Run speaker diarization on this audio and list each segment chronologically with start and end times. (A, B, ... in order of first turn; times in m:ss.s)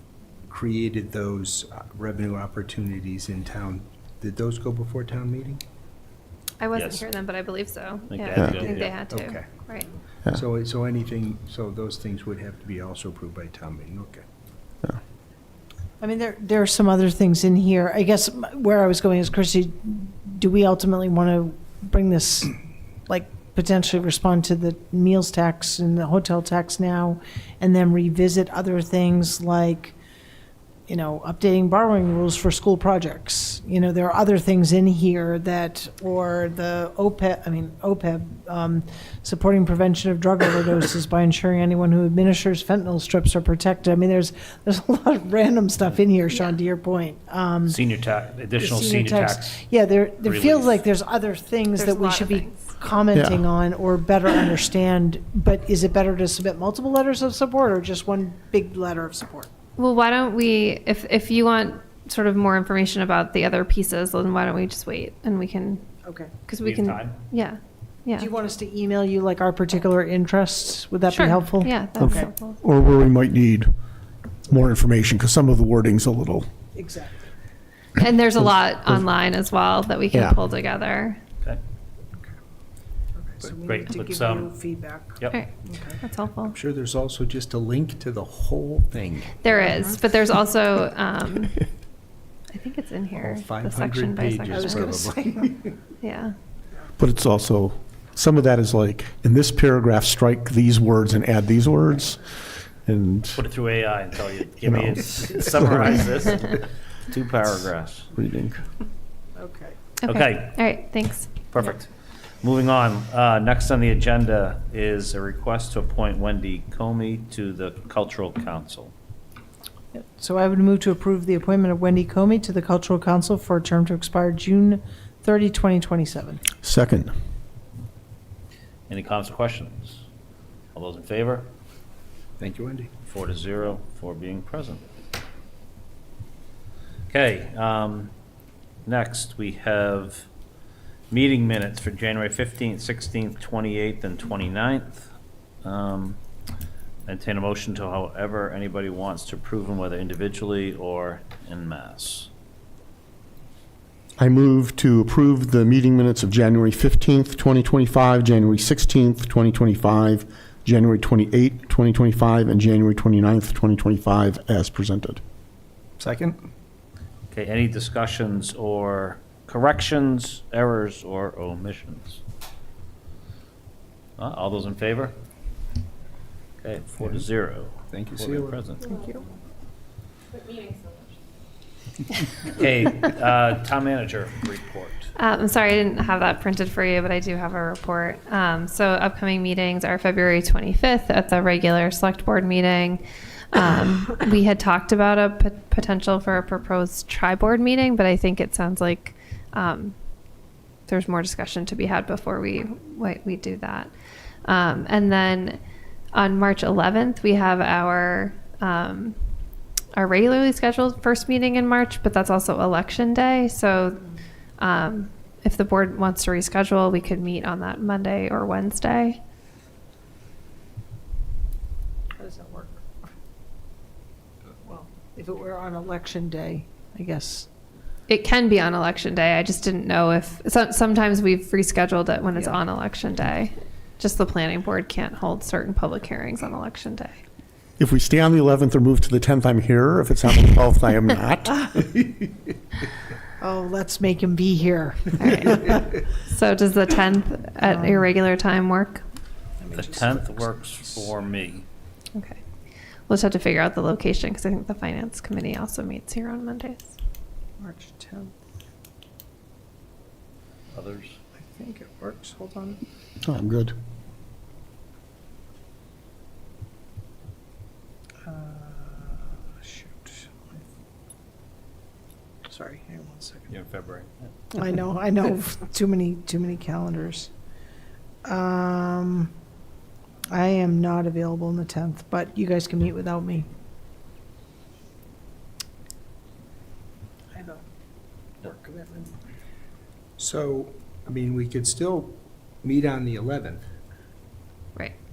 0:00.5-0:05.6 A
0:06.6-0:09.9 B
0:06.8-0:07.0 C
0:08.1-0:09.0 C
0:08.4-0:09.6 A
0:10.3-0:14.2 A
0:16.0-0:22.6 D
0:23.1-0:30.0 D
0:30.9-0:47.8 D
0:47.7-0:49.6 C
0:48.6-0:59.5 D
0:50.2-0:50.8 C
0:51.8-0:52.6 B
0:53.2-0:53.4 E
0:59.8-1:05.9 B
1:06.0-1:06.3 D
1:06.5-1:08.3 B
1:06.6-1:07.2 C
1:08.2-1:12.3 D
1:11.1-1:12.6 B
1:12.0-1:13.7 E
1:14.5-1:16.5 E
1:16.7-1:17.3 D
1:18.0-1:21.2 B
1:18.4-1:19.0 E
1:20.1-1:20.4 E
1:23.2-1:26.0 D
1:23.7-1:24.6 C
1:25.3-1:26.6 B
1:26.5-1:29.5 A
1:29.4-1:31.6 B
1:29.5-1:30.0 D
1:32.5-1:35.0 B
1:33.2-1:35.7 A
1:34.5-1:35.6 D
1:36.0-1:36.4 B
1:37.0-1:42.3 E
1:42.8-1:43.4 E
1:43.4-1:48.1 C
1:44.6-1:46.0 E
1:48.2-1:48.6 E
1:49.4-1:49.8 D
1:50.0-1:51.4 B
1:50.1-1:50.6 C
1:51.5-1:51.9 C
1:52.4-1:58.9 C
1:59.9-2:06.4 D
2:06.6-2:07.1 E
2:08.9-2:10.1 C
2:10.7-2:11.5 C
2:12.4-2:12.9 A
2:13.1-2:14.8 C
2:17.1-2:18.1 C
2:18.8-2:20.2 C
2:21.1-2:25.1 C
2:25.6-2:26.2 C
2:27.1-2:32.3 C
2:34.2-2:45.2 E
2:46.0-2:46.4 A
2:47.3-2:52.2 C
2:54.2-2:55.2 C
2:56.6-2:58.8 C
2:57.0-2:57.3 A
2:57.9-2:58.6 A
2:58.9-2:59.2 D
3:02.4-3:05.1 C
3:05.2-3:20.0 B
3:20.9-3:23.9 B
3:24.4-3:25.6 B
3:26.1-3:29.2 B
3:29.9-3:34.0 B
3:34.6-3:39.2 B
3:42.2-3:42.8 D
3:44.6-3:47.5 D
3:48.1-3:57.2 B
3:57.8-4:01.8 E
4:03.4-4:05.9 D
4:05.2-4:05.7 B
4:06.2-4:09.0 B
4:07.6-4:08.1 D
4:09.6-4:11.1 D
4:09.7-4:11.7 C
4:12.1-4:12.4 B
4:13.1-4:17.0 B
4:17.6-4:18.4 D
4:20.7-4:21.2 C
4:21.4-4:22.8 D
4:23.2-4:23.8 E
4:28.2-4:30.6 D
4:32.4-4:33.5 D
4:33.6-4:34.1 C
4:34.5-4:37.3 D
4:38.2-4:39.3 D
4:40.3-4:43.5 D
4:47.3-4:47.6 D
4:48.4-4:49.1 D
4:50.2-4:53.6 A